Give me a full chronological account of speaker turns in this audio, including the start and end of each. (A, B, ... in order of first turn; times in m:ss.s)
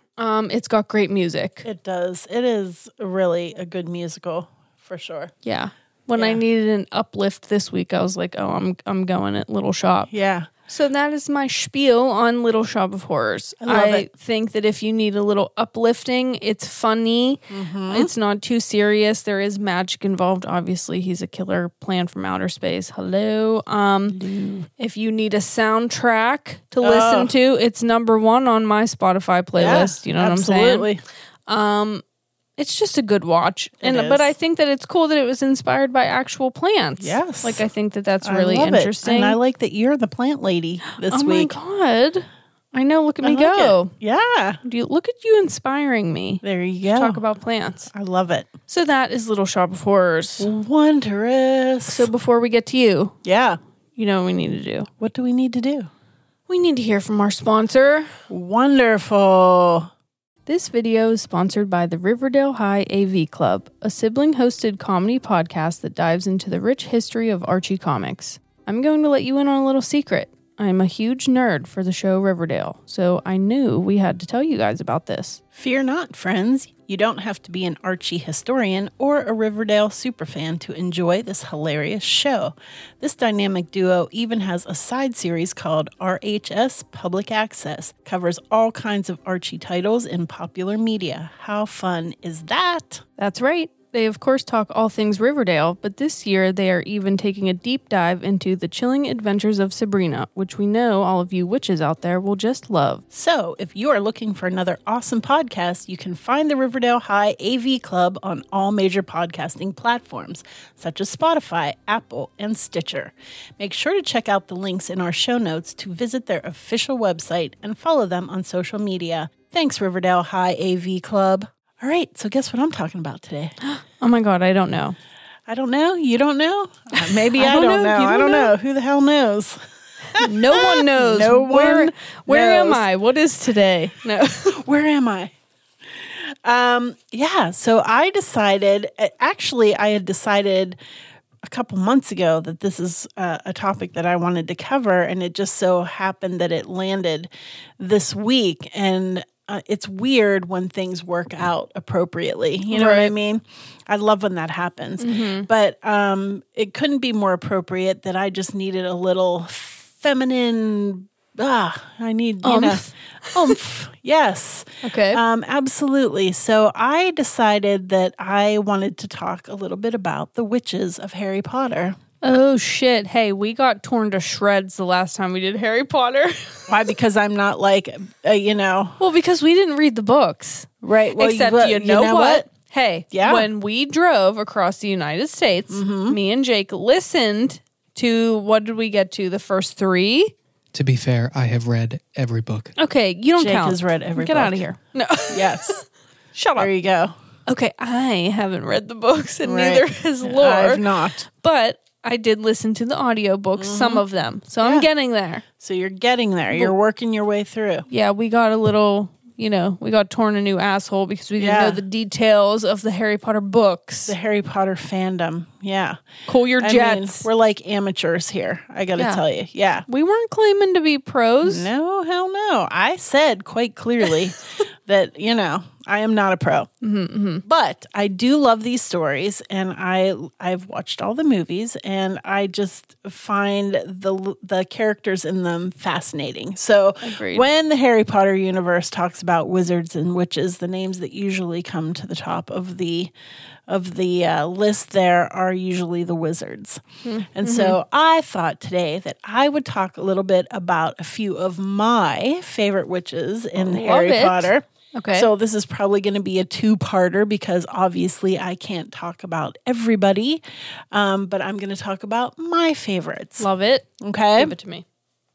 0:00.2-0:01.6 A
0:01.6-0:05.3 B
0:05.4-0:10.1 A
0:06.2-0:06.4 B
0:10.1-0:10.5 B
0:10.7-0:24.2 A
0:13.6-0:14.1 B
0:17.5-0:18.1 B
0:24.1-0:24.7 B
0:24.8-0:30.9 A
0:26.8-0:27.3 B
0:29.6-0:31.0 B
0:31.5-0:32.0 A
0:32.6-0:39.4 A
0:33.8-0:34.3 B
0:37.0-0:37.6 B
0:38.2-0:41.6 B
0:40.9-0:43.9 A
0:43.2-0:44.6 B
0:44.6-0:46.4 A
0:46.4-0:47.2 B
0:46.9-0:47.9 A
0:47.9-0:48.5 B
0:48.7-0:50.5 A
0:50.4-0:52.1 B
0:51.9-0:53.2 A
0:53.2-0:53.6 B
0:54.0-0:54.9 A
0:55.0-0:55.9 B
0:56.5-0:58.1 A
0:58.3-0:59.9 B
1:00.4-1:15.4 A
1:15.5-1:33.0 B
1:33.2-1:43.0 A
1:43.1-2:03.5 B
2:03.6-2:05.0 A
2:05.5-2:09.6 B
2:07.0-2:08.5 A
2:10.1-2:12.8 B
2:10.2-2:14.6 A
2:14.5-2:15.3 B
2:15.9-2:20.8 B
2:21.4-2:52.0 B
2:32.7-2:33.1 A
2:35.0-2:35.5 A
2:42.4-2:43.6 A
2:44.8-2:45.2 A
2:52.2-2:56.7 A
2:56.7-2:59.0 B
2:59.0-3:10.3 A
3:00.8-3:02.5 B
3:03.1-3:03.5 B
3:05.7-3:06.2 B
3:10.7-3:12.7 C
3:12.8-3:15.8 A
3:13.4-3:14.6 B
3:15.3-3:15.8 B
3:16.3-3:16.7 A
3:16.6-3:17.1 B
3:17.5-3:25.4 A
3:19.4-3:21.2 B
3:23.6-3:24.0 B
3:24.6-3:24.9 B
3:25.6-3:27.8 B
3:27.9-3:34.1 A
3:31.4-3:31.8 B
3:34.1-3:36.0 B
3:36.3-3:37.3 A
3:36.6-3:39.8 B
3:39.0-3:39.2 A
3:39.9-3:41.7 A
3:41.4-3:46.7 B
3:46.8-3:47.4 A
3:47.4-4:03.1 B
3:57.0-3:57.4 A
4:03.7-4:06.8 B
4:07.0-4:07.8 A
4:07.3-4:20.4 B
4:13.6-4:15.3 A
4:20.9-4:23.5 B
4:23.4-4:24.8 A
4:24.0-4:24.5 B